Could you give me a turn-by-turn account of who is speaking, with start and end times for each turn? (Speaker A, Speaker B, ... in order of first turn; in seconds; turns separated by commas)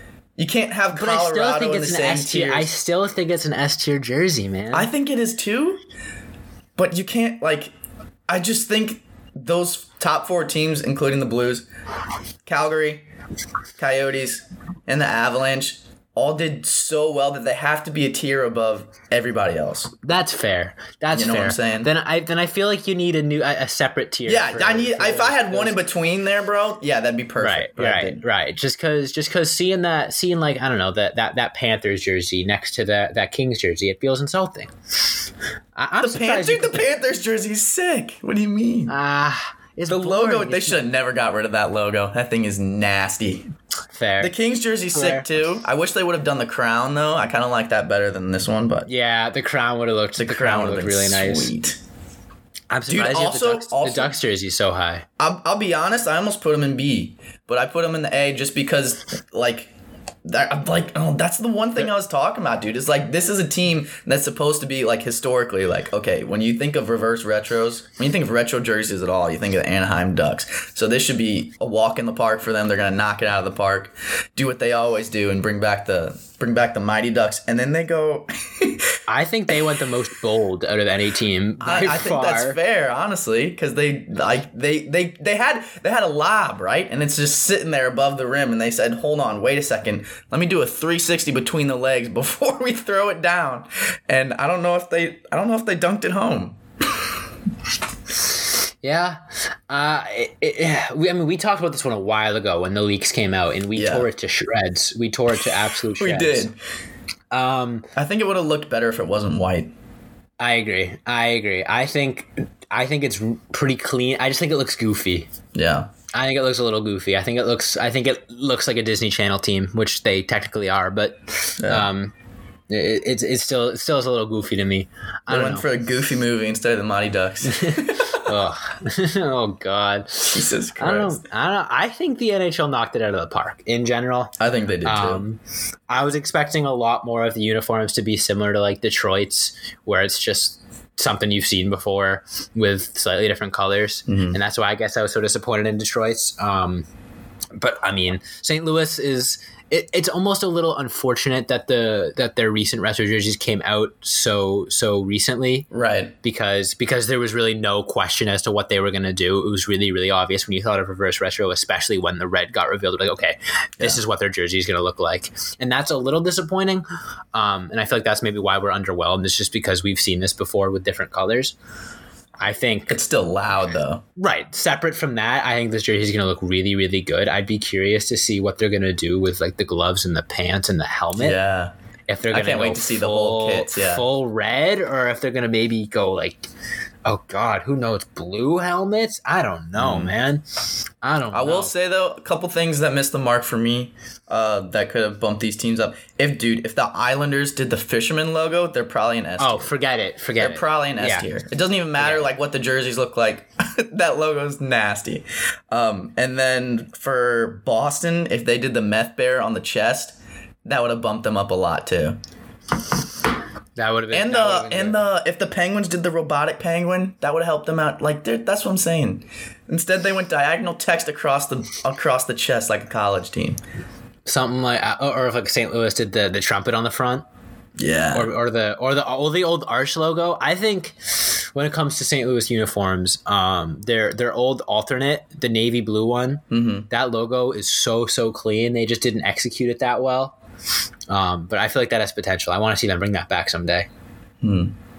Speaker A: 0.4-2.7, Speaker B: 0.9-4.9, Speaker A: 4.7-5.8, Speaker A: 6.8-7.7, Speaker A: 8.3-11.7, Speaker A: 12.4-13.0, Speaker A: 13.8-19.9, Speaker B: 20.0-25.8, Speaker A: 21.1-21.9, Speaker A: 24.3-28.2, Speaker B: 27.4-35.2, Speaker B: 35.8-36.9, Speaker A: 36.0-38.9, Speaker B: 38.9-40.8, Speaker A: 39.9-43.4, Speaker B: 43.9-44.3, Speaker A: 44.2-48.9, Speaker B: 44.9-45.3, Speaker B: 48.9-51.5, Speaker A: 50.2-51.8, Speaker B: 52.7-55.0, Speaker A: 52.9-54.1, Speaker A: 55.2-59.7, Speaker A: 60.2-78.9, Speaker B: 79.1-82.6, Speaker A: 81.6-96.6, Speaker B: 98.8-106.5, Speaker A: 103.8-104.1, Speaker A: 106.0-106.6, Speaker B: 107.3-107.8, Speaker A: 108.0-109.7, Speaker B: 110.4-115.3, Speaker A: 115.5-115.9, Speaker B: 116.1-122.1, Speaker A: 121.6-121.9, Speaker B: 122.7-125.7, Speaker A: 125.3-128.3, Speaker B: 127.5-146.8, Speaker A: 130.3-131.2, Speaker A: 134.4-135.2, Speaker A: 144.1-144.4, Speaker B: 147.6-155.7, Speaker A: 155.7-156.1, Speaker B: 156.2-171.6, Speaker B: 172.4-173.0, Speaker A: 172.9-174.0, Speaker B: 174.2-181.4, Speaker A: 181.2-181.7, Speaker B: 182.1-186.5, Speaker A: 182.3-184.0, Speaker B: 187.1-191.7, Speaker A: 189.8-190.1, Speaker A: 191.3-199.7, Speaker B: 199.4-201.3, Speaker A: 200.4-212.2, Speaker B: 202.0-202.3, Speaker B: 213.8-215.1, Speaker A: 214.1-223.6, Speaker B: 224.2-227.2, Speaker A: 227.8-228.3, Speaker B: 228.1-240.4, Speaker A: 236.5-236.9, Speaker B: 241.1-243.9, Speaker A: 244.4-244.7